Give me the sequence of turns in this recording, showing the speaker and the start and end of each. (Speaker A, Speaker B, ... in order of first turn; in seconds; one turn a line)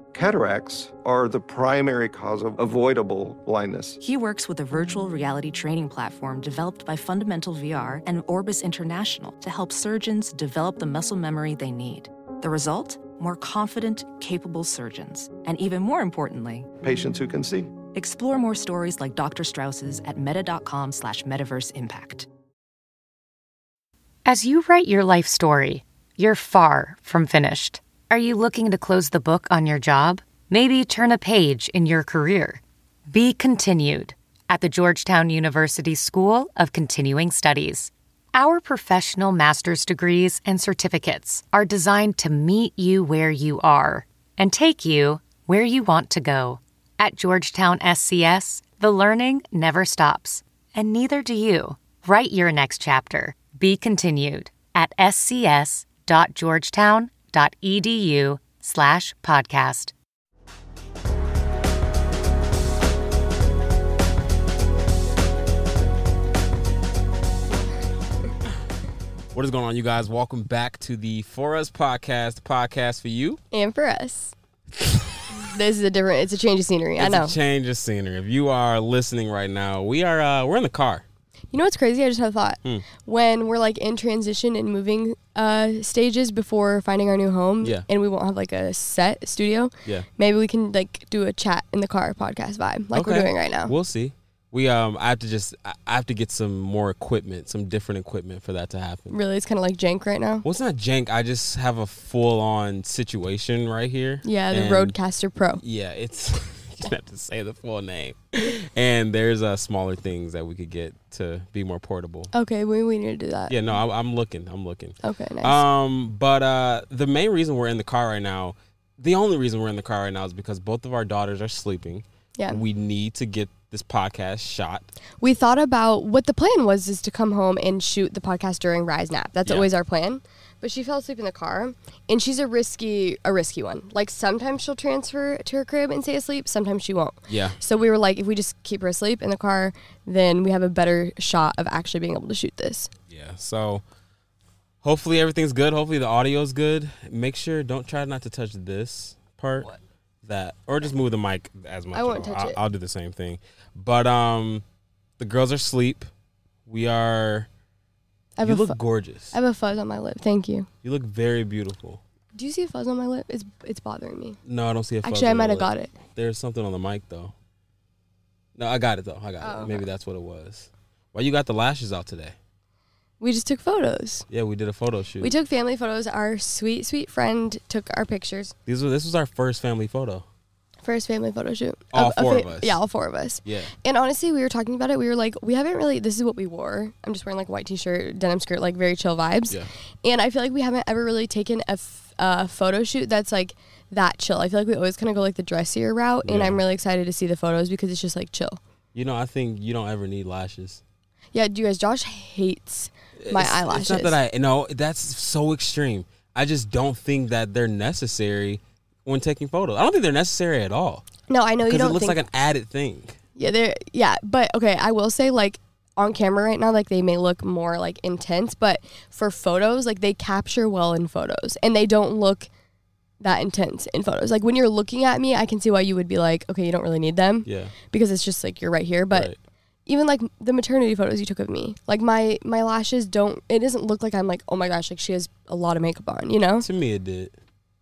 Speaker A: 0.1-4.0
Speaker B: 4.0-16.7
Speaker A: 16.8-17.7
Speaker B: 17.9-22.3
Speaker C: 24.2-59.9
Speaker D: 69.3-73.4
Speaker E: 73.5-74.3
Speaker D: 74.8-75.2
Speaker E: 75.4-77.3
Speaker D: 77.0-81.0
Speaker E: 81.5-93.7
Speaker D: 92.9-99.2
Speaker E: 99.1-100.4
Speaker D: 100.4-105.0
Speaker E: 104.2-105.6
Speaker D: 105.6-112.3
Speaker E: 112.3-113.7
Speaker D: 113.5-124.9
Speaker E: 115.0-115.6
Speaker E: 125.2-142.9
Speaker D: 137.3-137.6
Speaker D: 143.1-143.8
Speaker D: 144.8-149.7
Speaker D: 150.2-154.6
Speaker E: 151.9-152.6
Speaker D: 155.2-156.1
Speaker D: 156.7-157.5
Speaker E: 158.4-158.8
Speaker D: 158.4-159.3
Speaker E: 159.3-160.7
Speaker D: 160.8-162.0
Speaker E: 162.3-164.4
Speaker D: 164.4-167.3
Speaker E: 165.0-165.9
Speaker D: 168.6-172.3
Speaker E: 169.4-169.8
Speaker E: 173.2-174.2
Speaker D: 174.3-175.3
Speaker E: 175.2-178.5
Speaker D: 178.7-180.2
Speaker E: 180.8-198.6
Speaker D: 181.9-182.8
Speaker D: 183.4-183.7
Speaker D: 196.2-196.6
Speaker D: 198.9-200.8
Speaker E: 201.3-204.2
Speaker D: 203.2-211.0
Speaker E: 211.3-212.2
Speaker D: 211.7-213.2
Speaker E: 213.4-222.5
Speaker E: 223.2-229.3
Speaker D: 227.4-227.7
Speaker E: 229.9-236.7
Speaker D: 236.6-237.3